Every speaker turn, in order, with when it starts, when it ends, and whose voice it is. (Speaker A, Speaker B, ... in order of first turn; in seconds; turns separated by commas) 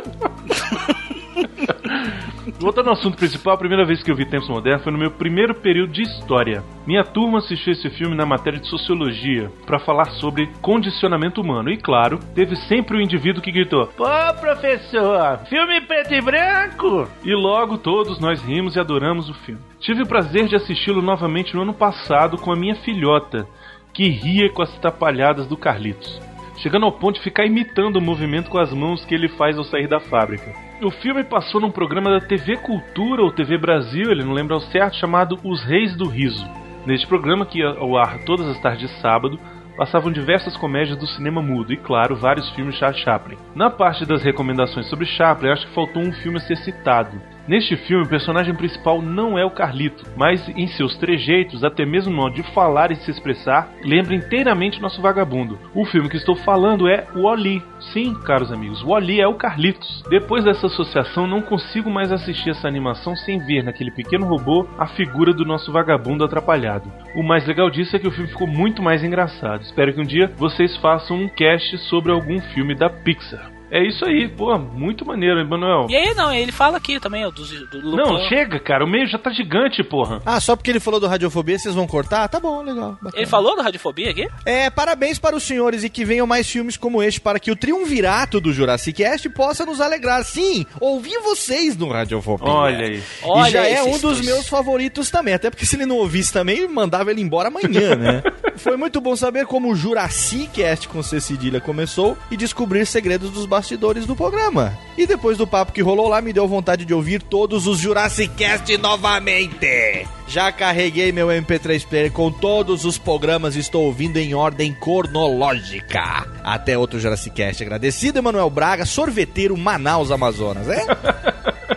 Speaker A: 1.9-75.9, Speaker B: 75.9-78.3, Speaker A: 77.9-80.2, Speaker C: 80.2-83.4, Speaker B: 83.1-84.3, Speaker C: 84.4-121.0, Speaker A: 92.4-93.1, Speaker B: 93.2-94.5, Speaker A: 97.9-98.2